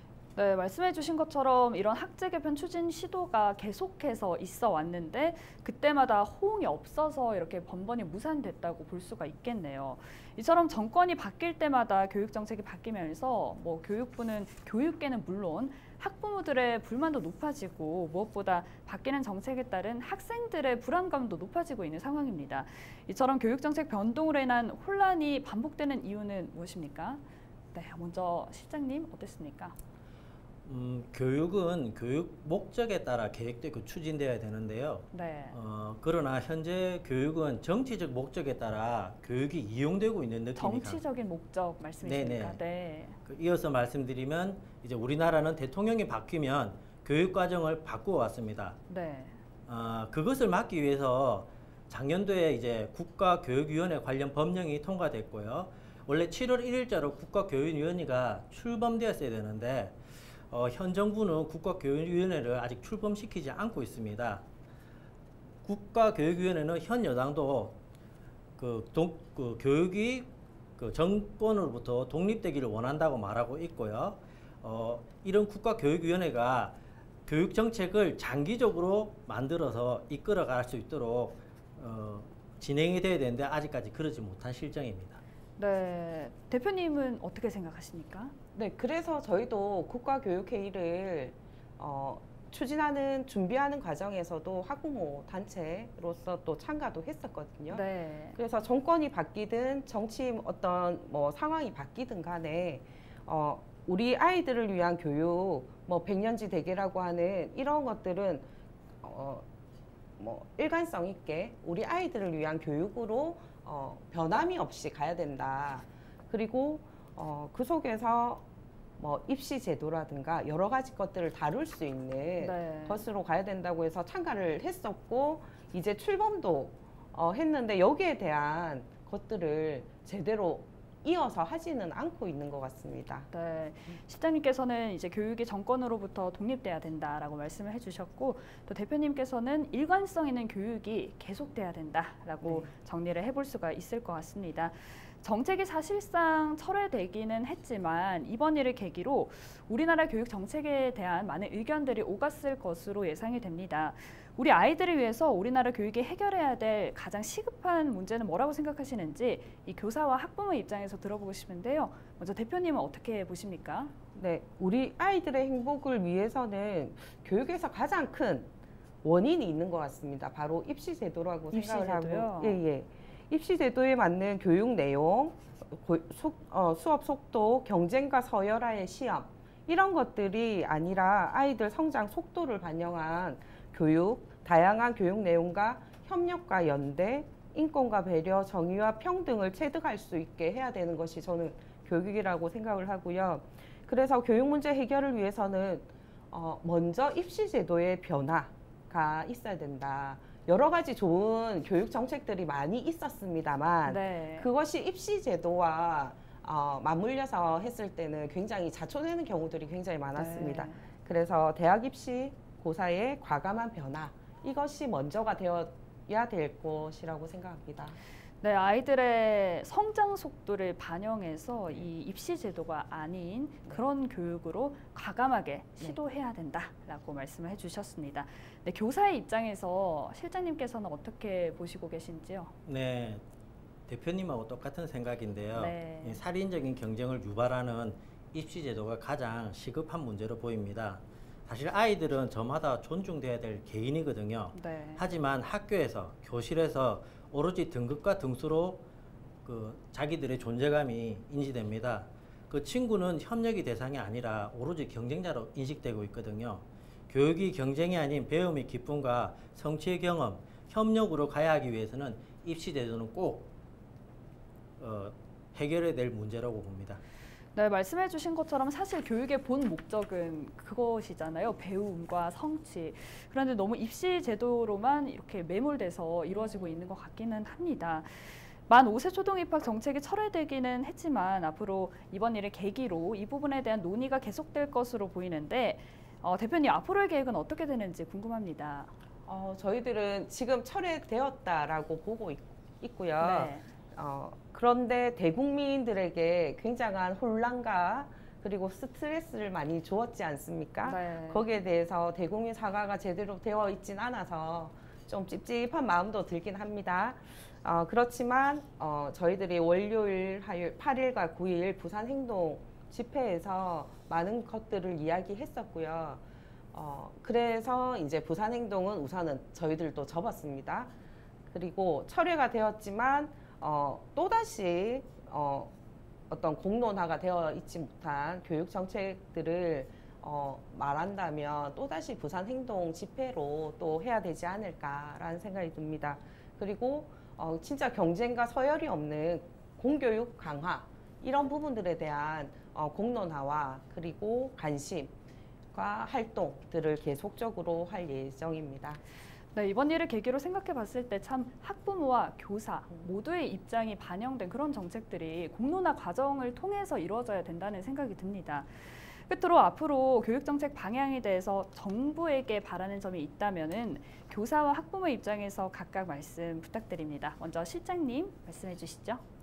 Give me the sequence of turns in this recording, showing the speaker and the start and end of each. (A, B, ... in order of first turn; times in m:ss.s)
0:00.4-0:27.2 A
0:27.7-0:29.8 A
0:30.6-0:41.0 B
0:35.1-0:35.6 A
0:40.6-0:43.2 A
0:42.0-0:42.6 B
0:43.3-0:48.8 B
0:48.9-0:49.4 A
0:49.7-1:00.0 B
1:00.5-1:04.4 B
1:05.6-1:07.8 B
1:08.6-1:16.8 B
1:17.3-1:25.2 B
1:25.6-1:28.3 A
1:28.6-1:48.5 C
1:37.7-1:38.4 A
1:49.0-1:49.4 C
1:50.2-1:58.4 C
1:59.0-2:13.3 C
2:02.4-2:03.0 A
2:13.3-2:43.9 A
2:22.4-2:22.7 C
2:44.2-2:48.5 C
2:49.0-3:38.0 C
2:51.5-2:52.6 A
3:23.9-3:24.5 A
3:30.2-3:30.8 A
3:38.4-3:52.5 A
3:52.6-3:53.2 B
3:53.9-4:08.8 B
3:55.5-3:56.2 A
4:04.5-4:05.0 A
4:09.4-4:23.5 B
4:24.8-4:27.0 B
4:27.6-4:48.9 A
4:36.3-4:36.8 C
4:49.2-5:16.2 C
4:53.2-4:53.7 A
5:00.8-5:01.5 A
5:16.7-5:20.9 C
5:21.5-5:25.7 C
5:26.3-5:45.1 C
5:45.7-5:49.0 C
5:49.6-6:09.2 A